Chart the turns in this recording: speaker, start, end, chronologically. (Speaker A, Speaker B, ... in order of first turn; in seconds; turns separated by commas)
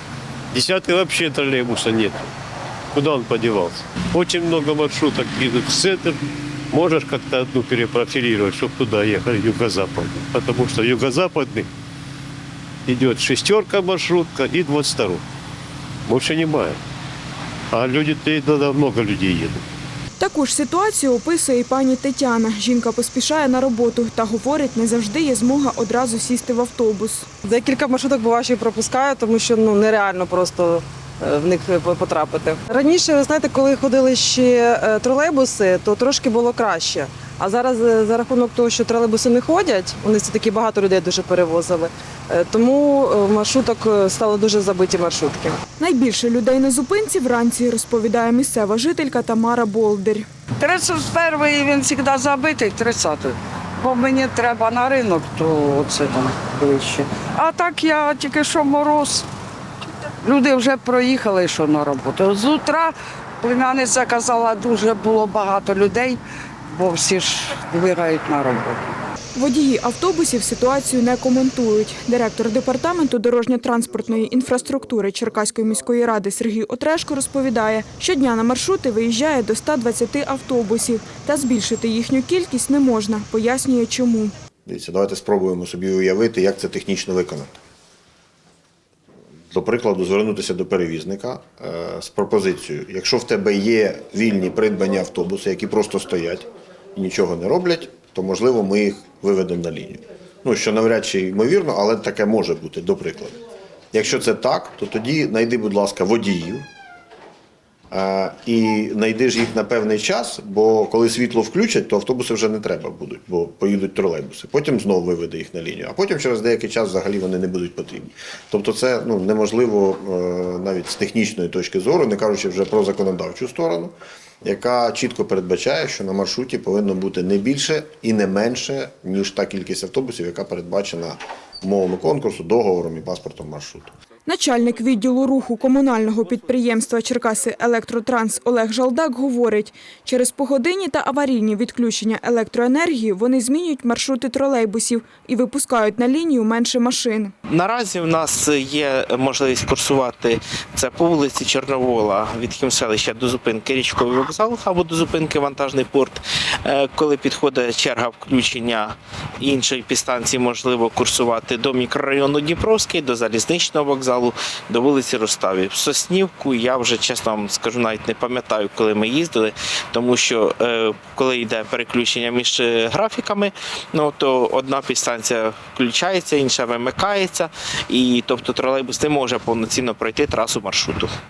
Speaker A: 0.5-2.3, Speaker A: 2.9-6.2, Speaker A: 6.7-11.7, Speaker A: 12.8-15.2, Speaker A: 16.1-16.8, Speaker A: 17.7-19.6, Speaker B: 20.2-27.3, Speaker C: 27.4-45.6, Speaker B: 45.8-50.3, Speaker D: 50.6-59.3, Speaker D: 60.2-69.0, Speaker B: 69.3-84.3, Speaker E: 84.7-87.6, Speaker E: 89.5-103.4, Speaker E: 103.9-106.7, Speaker E: 107.9-133.9, Speaker B: 134.2-147.3, Speaker F: 147.5-181.1